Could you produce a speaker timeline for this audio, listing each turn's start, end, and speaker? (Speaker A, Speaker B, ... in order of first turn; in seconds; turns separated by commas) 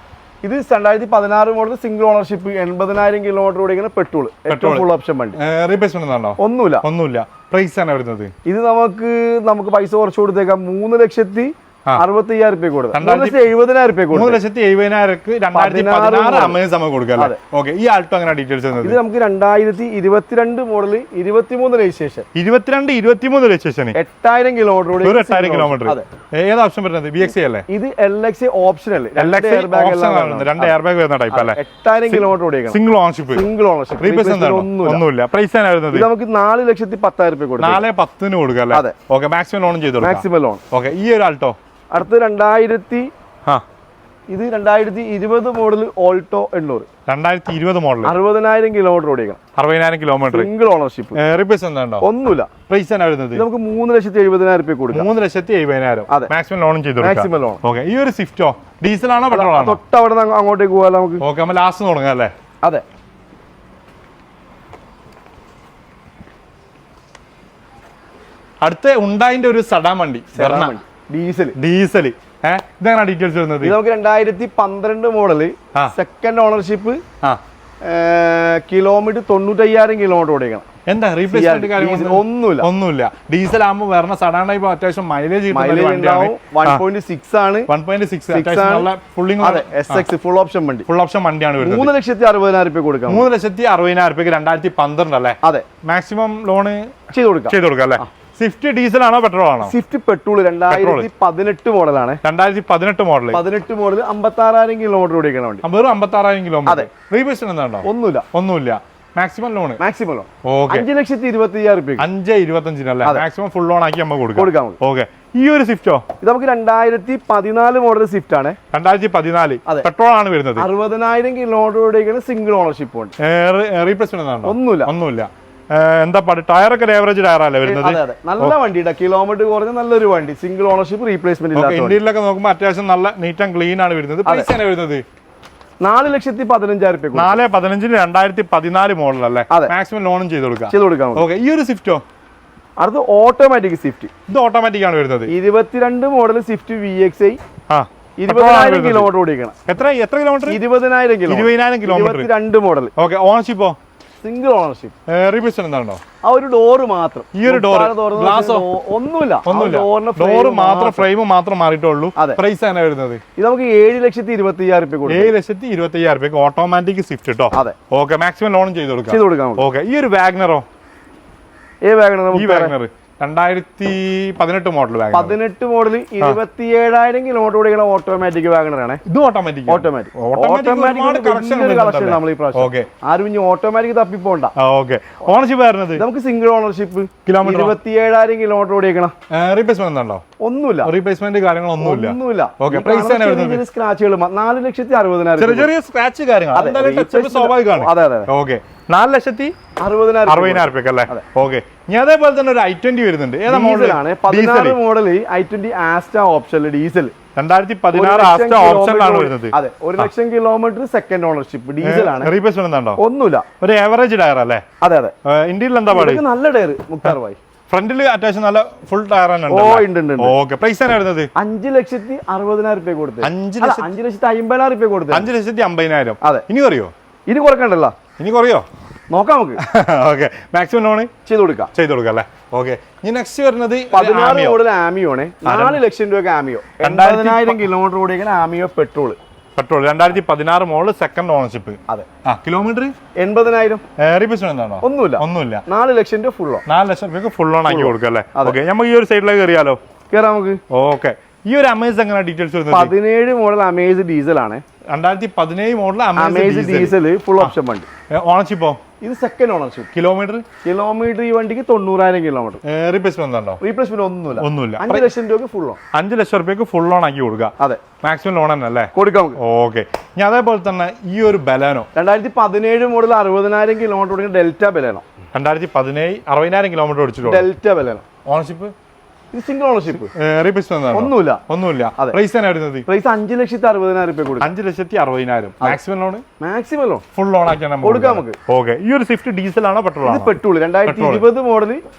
Speaker A: 0.4-5.4, Speaker B: 4.5-8.3, Speaker A: 6.4-6.8, Speaker A: 8.4-14.4, Speaker B: 12.9-13.5, Speaker B: 14.1-19.0, Speaker A: 15.5-16.6, Speaker A: 18.8-22.3, Speaker B: 22.3-24.0, Speaker A: 23.9-26.1, Speaker B: 25.0-27.6, Speaker A: 27.7-30.7, Speaker B: 29.1-33.5, Speaker A: 31.3-32.8, Speaker A: 33.3-35.0, Speaker B: 34.0-36.1, Speaker A: 35.9-37.8, Speaker B: 37.6-41.5, Speaker A: 40.0-40.6, Speaker A: 41.9-43.1, Speaker A: 44.3-46.9, Speaker B: 47.1-48.1, Speaker A: 48.0-49.4, Speaker B: 49.5-50.5, Speaker A: 50.3-51.2, Speaker B: 51.1-52.1, Speaker A: 52.0-52.5, Speaker B: 52.7-53.4, Speaker A: 53.3-55.1, Speaker B: 54.9-59.8, Speaker A: 57.0-57.6, Speaker A: 59.3-61.2, Speaker B: 61.2-62.3, Speaker B: 68.6-70.7, Speaker A: 70.3-71.5, Speaker B: 71.5-73.8, Speaker A: 73.6-77.0, Speaker A: 77.8-80.7, Speaker B: 80.9-86.8, Speaker A: 81.3-82.7, Speaker A: 85.5-87.7, Speaker B: 87.7-90.0, Speaker A: 88.3-88.9, Speaker A: 89.4-90.8, Speaker B: 90.9-91.9, Speaker A: 91.6-93.3, Speaker B: 93.1-96.9, Speaker A: 97.1-98.1, Speaker B: 97.5-99.7, Speaker A: 99.6-102.2, Speaker B: 100.7-101.1, Speaker B: 102.2-103.4, Speaker A: 103.3-105.6, Speaker B: 105.6-109.8, Speaker A: 107.8-108.2, Speaker A: 109.8-112.0, Speaker B: 110.4-110.8, Speaker B: 112.0-116.0, Speaker A: 114.3-114.8, Speaker A: 116.2-118.6, Speaker B: 118.7-120.7, Speaker A: 120.5-123.1, Speaker B: 123.2-128.5, Speaker A: 124.4-124.9, Speaker A: 127.6-132.0, Speaker B: 131.5-135.0, Speaker A: 135.8-137.4, Speaker B: 137.1-142.0, Speaker A: 140.7-141.2, Speaker A: 142.8-144.1, Speaker B: 144.3-145.3, Speaker A: 145.3-147.4, Speaker B: 147.7-149.1, Speaker A: 148.2-149.5, Speaker B: 149.7-150.6, Speaker A: 150.4-152.9, Speaker B: 151.3-152.3, Speaker B: 153.0-153.8, Speaker A: 154.2-154.9, Speaker B: 155.1-156.0, Speaker A: 156.2-161.1, Speaker B: 157.3-158.7, Speaker B: 159.4-163.2, Speaker A: 163.4-165.3, Speaker B: 165.1-170.6, Speaker A: 167.5-167.8, Speaker A: 169.1-169.6, Speaker A: 171.8-172.8, Speaker B: 172.3-175.4, Speaker A: 175.1-179.0, Speaker B: 179.0-182.9, Speaker A: 179.7-184.5, Speaker B: 184.6-186.0, Speaker A: 185.9-189.1, Speaker B: 187.2-187.8, Speaker B: 189.3-190.2, Speaker A: 190.4-190.9, Speaker B: 190.8-193.6, Speaker A: 191.8-195.7, Speaker B: 195.4-199.6, Speaker A: 196.5-198.3, Speaker A: 199.8-201.2, Speaker B: 200.3-204.8, Speaker A: 203.5-207.1, Speaker B: 207.3-210.1, Speaker A: 207.9-212.3, Speaker B: 211.8-213.0, Speaker A: 213.0-213.4, Speaker B: 213.6-214.6, Speaker A: 214.8-215.1, Speaker B: 215.2-216.2, Speaker A: 215.9-217.4, Speaker B: 217.7-221.3, Speaker A: 219.5-220.3, Speaker A: 221.3-225.3, Speaker B: 223.2-223.9, Speaker B: 225.1-226.9, Speaker A: 227.3-228.0, Speaker B: 228.2-228.7, Speaker A: 229.1-229.6, Speaker B: 229.6-231.1, Speaker A: 231.2-231.7, Speaker B: 231.7-234.6, Speaker A: 233.9-239.2, Speaker B: 235.4-235.8, Speaker B: 236.8-237.7, Speaker B: 239.6-242.9, Speaker A: 243.2-243.8, Speaker B: 244.0-245.6, Speaker A: 244.8-246.6, Speaker B: 246.7-249.8, Speaker A: 247.7-248.6, Speaker A: 250.1-250.6, Speaker B: 250.7-252.9, Speaker A: 252.7-254.6, Speaker B: 254.9-257.5, Speaker A: 256.1-257.9, Speaker B: 258.1-258.8, Speaker A: 259.0-259.9, Speaker B: 259.9-260.4, Speaker A: 260.6-262.6, Speaker B: 262.6-263.6, Speaker A: 263.6-265.8, Speaker B: 264.4-265.1, Speaker B: 265.9-271.9, Speaker A: 268.9-269.4, Speaker A: 271.9-275.0, Speaker B: 275.3-277.5, Speaker A: 277.2-278.0, Speaker B: 278.2-278.7, Speaker A: 279.3-280.1, Speaker B: 280.1-282.8, Speaker A: 280.9-281.4, Speaker A: 282.9-284.5, Speaker B: 284.4-286.2, Speaker A: 286.4-287.0, Speaker B: 287.1-290.3, Speaker A: 287.8-288.4, Speaker A: 290.0-291.8, Speaker B: 290.8-291.3